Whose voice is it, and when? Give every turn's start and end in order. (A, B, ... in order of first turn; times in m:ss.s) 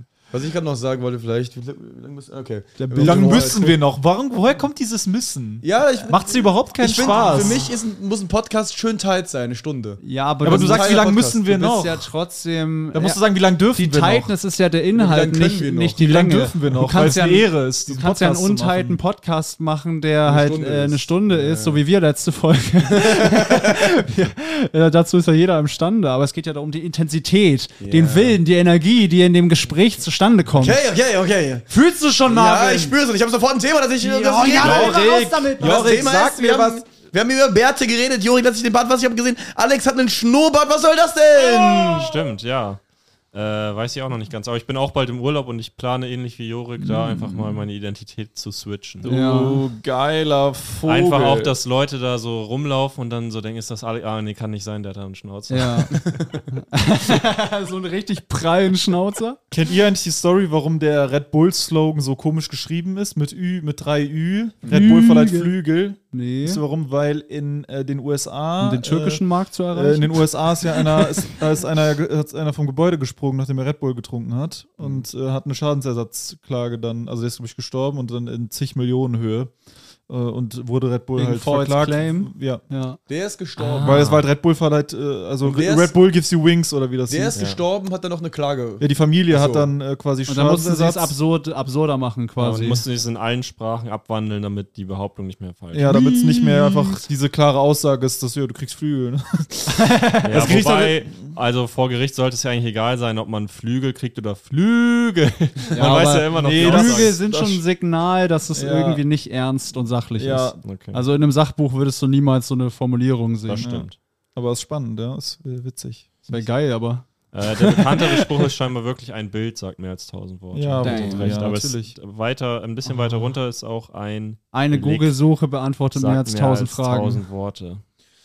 0:00.3-0:03.7 A
0:02.8-0:03.8 B
0:03.0-0:07.7 C
0:05.6-0:11.4 A
0:07.3-0:07.6 B
0:10.0-0:13.2 B
0:10.4-0:12.1 C
0:12.9-0:14.3 C
0:13.7-0:30.8 B
0:14.9-0:16.0 A
0:16.0-0:19.0 C
0:20.2-0:21.8 A
0:22.9-0:23.9 A
0:27.8-0:28.4 A
0:30.5-0:31.7 A
0:31.7-0:33.0 B
0:32.2-0:42.2 A
0:34.0-0:35.9 B
0:34.5-0:36.8 C
0:41.4-0:42.8 D
0:43.3-0:49.0 D
0:46.8-0:47.3 B
0:49.0-0:51.5 C
0:49.0-0:49.6 B
0:50.8-0:56.2 D
0:55.5-0:59.4 B
0:56.0-0:56.4 A
0:59.5-1:19.5 C
1:04.7-1:05.5 B
1:06.1-1:06.6 B
1:08.6-1:11.3 B
1:20.1-1:22.6 C
1:21.2-1:23.0 B
1:23.1-1:24.1 A
1:23.6-1:24.2 D
1:23.8-1:27.4 C
1:25.4-1:25.9 A
1:27.1-1:29.7 A
1:27.3-1:27.6 D
1:28.8-1:31.2 C
1:30.3-1:32.8 B
1:32.4-1:35.9 D
1:35.7-1:39.8 C
1:35.9-1:37.1 B
1:39.7-1:40.6 B
1:40.2-1:47.2 D
1:40.3-1:41.3 C
1:45.7-1:53.7 B
1:46.3-1:47.6 C
1:48.5-1:49.0 C
1:50.2-1:50.6 C
1:50.6-1:51.0 D
1:53.5-1:54.0 D
1:53.6-1:56.5 C
1:56.3-1:58.3 B
1:57.3-2:05.2 D
2:00.5-2:01.9 C
2:00.8-2:01.4 B
2:02.9-2:03.3 B
2:04.5-2:07.2 B
2:05.9-2:07.8 D